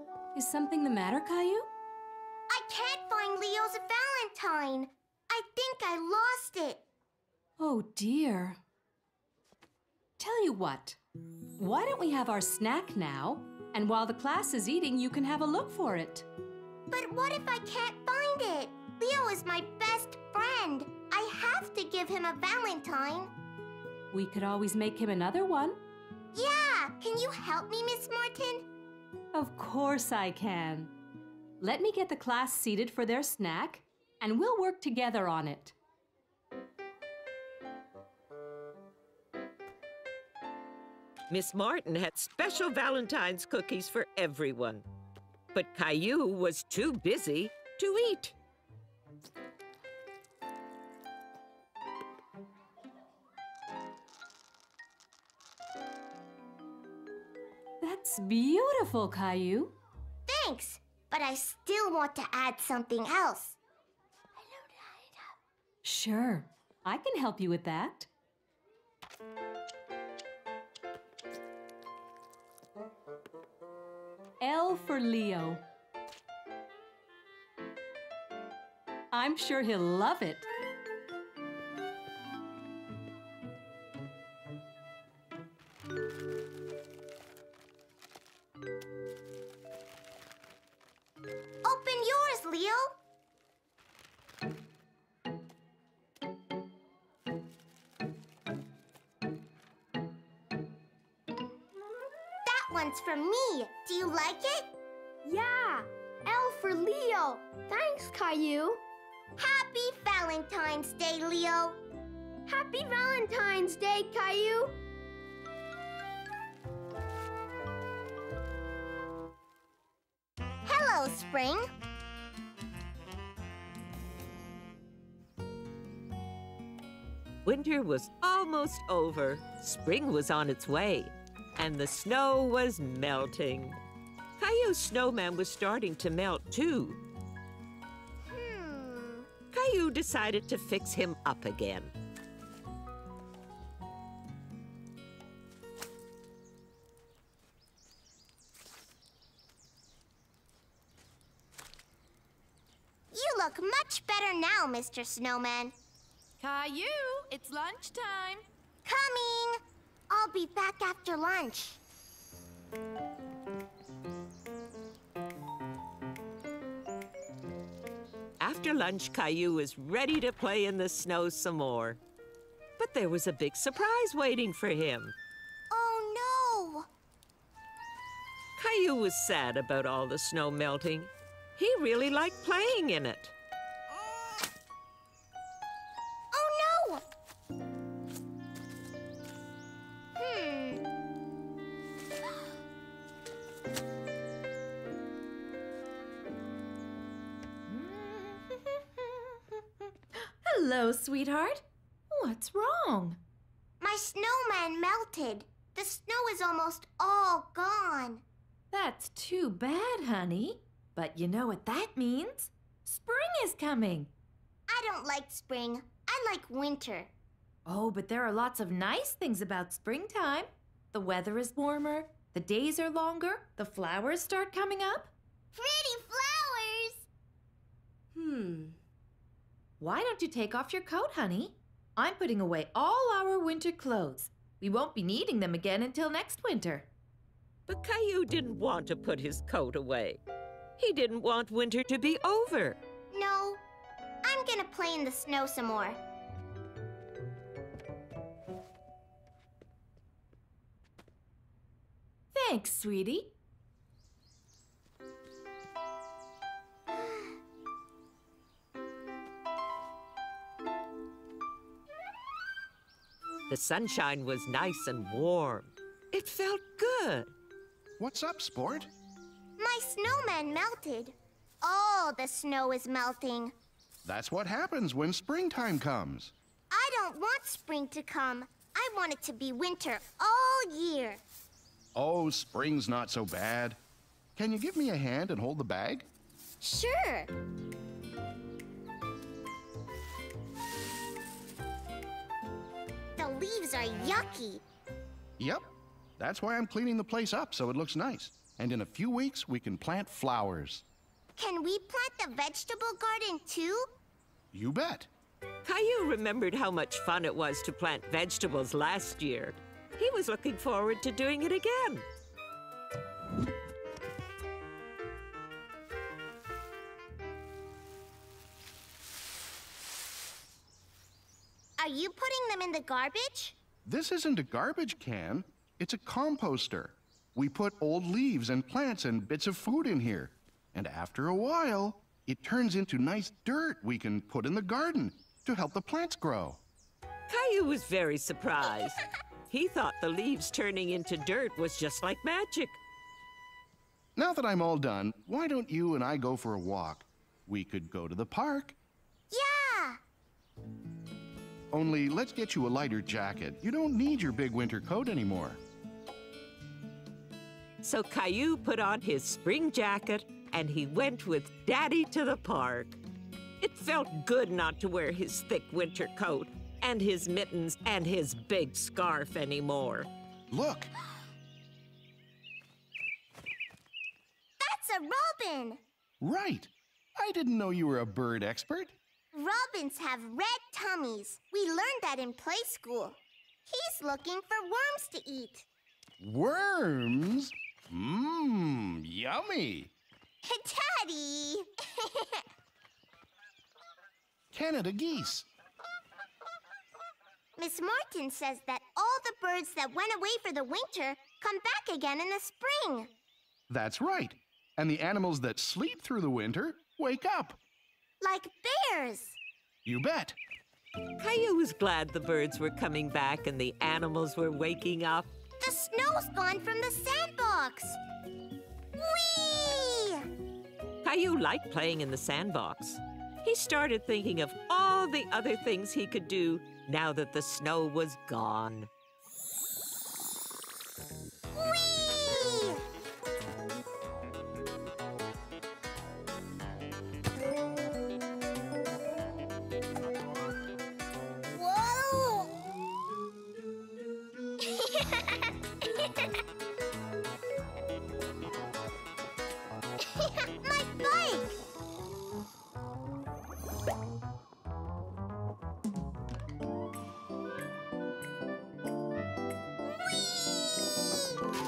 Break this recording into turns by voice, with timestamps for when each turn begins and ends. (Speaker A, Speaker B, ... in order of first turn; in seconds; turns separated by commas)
Speaker A: 0.3-1.7, Speaker B: 2.5-6.8, Speaker A: 7.6-8.6, Speaker A: 10.2-11.0, Speaker A: 11.6-16.3, Speaker B: 16.9-23.3, Speaker A: 24.1-25.8, Speaker B: 26.3-28.6, Speaker A: 29.3-30.9, Speaker A: 31.6-35.8, Speaker C: 41.3-44.9, Speaker C: 45.5-48.3, Speaker A: 57.8-59.7, Speaker B: 60.3-63.6, Speaker A: 65.8-68.1, Speaker A: 74.4-75.6, Speaker A: 79.1-80.5, Speaker B: 91.6-93.0, Speaker B: 102.5-104.7, Speaker D: 105.2-108.8, Speaker B: 109.4-111.8, Speaker D: 112.5-114.8, Speaker B: 120.7-121.7, Speaker C: 127.5-133.8, Speaker C: 134.4-137.0, Speaker B: 138.3-139.3, Speaker C: 139.5-141.9, Speaker B: 153.1-155.7, Speaker E: 156.4-158.4, Speaker B: 158.8-161.8, Speaker C: 168.4-172.0, Speaker C: 172.8-175.2, Speaker B: 175.7-176.9, Speaker C: 178.6-183.3, Speaker B: 186.3-187.0, Speaker B: 190.2-190.8, Speaker E: 197.7-203.2, Speaker B: 203.8-208.2, Speaker E: 208.7-214.1, Speaker B: 214.7-217.1, Speaker E: 217.7-225.1, Speaker B: 225.5-227.1, Speaker D: 228.2-228.7, Speaker E: 229.8-236.9, Speaker C: 237.7-240.2, Speaker C: 240.8-242.8, Speaker B: 243.1-243.6, Speaker B: 244.2-246.0, Speaker E: 252.3-253.3, Speaker C: 263.5-267.3, Speaker F: 268.0-268.9, Speaker B: 269.6-273.5, Speaker F: 274.1-276.3, Speaker B: 276.7-281.2, Speaker F: 281.9-283.8, Speaker F: 284.4-286.1, Speaker B: 286.6-287.3, Speaker B: 293.2-294.6, Speaker F: 295.4-295.6, Speaker F: 296.2-300.9, Speaker B: 301.4-303.9, Speaker F: 304.5-305.1, Speaker C: 305.6-312.1, Speaker B: 321.8-323.6, Speaker F: 323.9-336.6, Speaker C: 337.3-339.0, Speaker C: 339.5-342.8, Speaker F: 344.2-348.8, Speaker B: 349.3-350.0, Speaker F: 351.7-355.6, Speaker C: 357.8-363.0, Speaker C: 363.6-370.1, Speaker F: 370.5-370.9, Speaker B: 374.6-375.8, Speaker F: 376.2-378.9, Speaker B: 379.3-385.7, Speaker F: 386.2-389.9, Speaker B: 390.4-392.4, Speaker F: 394.5-395.5, Speaker B: 397.6-403.1, Speaker F: 403.7-407.6, Speaker B: 408.2-409.4, Speaker F: 409.9-410.4, Speaker C: 411.2-415.3, Speaker B: 415.6-418.0, Speaker B: 419.0-420.3, Speaker C: 421.0-428.9, Speaker B: 431.5-432.8, Speaker B: 441.5-442.5, Speaker B: 444.6-446.3, Speaker B: 450.0-451.6